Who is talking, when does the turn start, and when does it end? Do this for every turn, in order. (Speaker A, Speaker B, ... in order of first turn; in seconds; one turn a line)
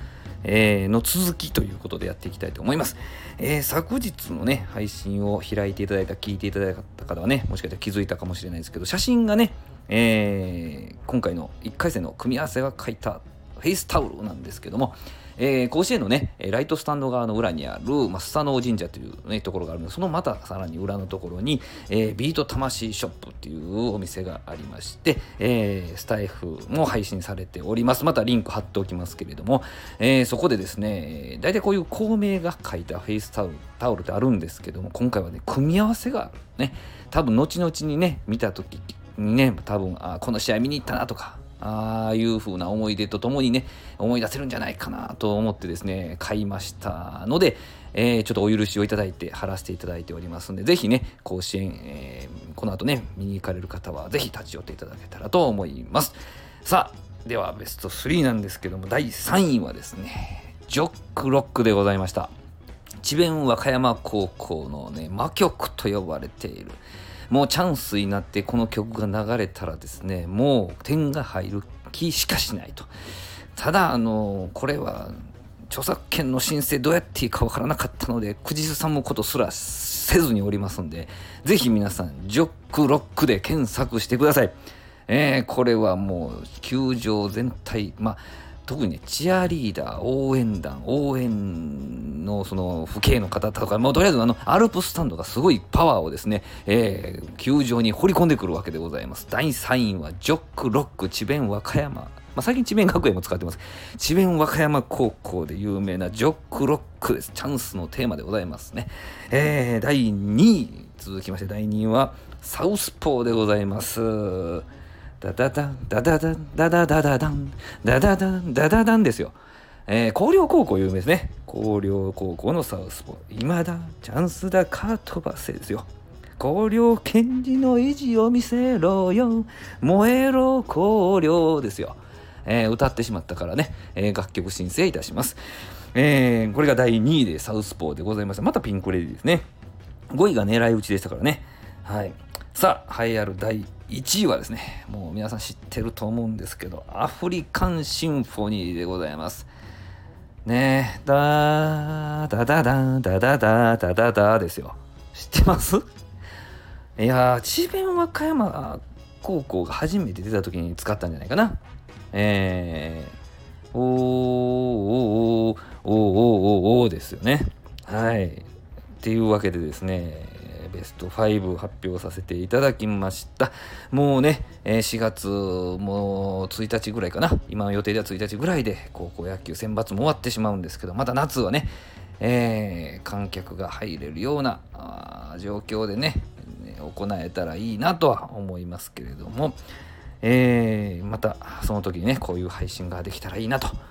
Speaker A: 0.4-62.3
Speaker A: 63.0-66.8
Speaker A: 67.3-72.9
Speaker A: 73.5-84.5
Speaker A: 85.1-114.7
Speaker A: 115.2-119.3
Speaker A: 119.9-125.9
Speaker A: 126.4-135.4
Speaker A: 135.9-139.4
Speaker A: 140.1-149.5
Speaker A: 150.4-155.8
Speaker A: 157.0-161.6
Speaker A: 162.1-163.1
Speaker A: 163.7-168.5
Speaker A: 169.0-189.6
Speaker A: 190.2-193.8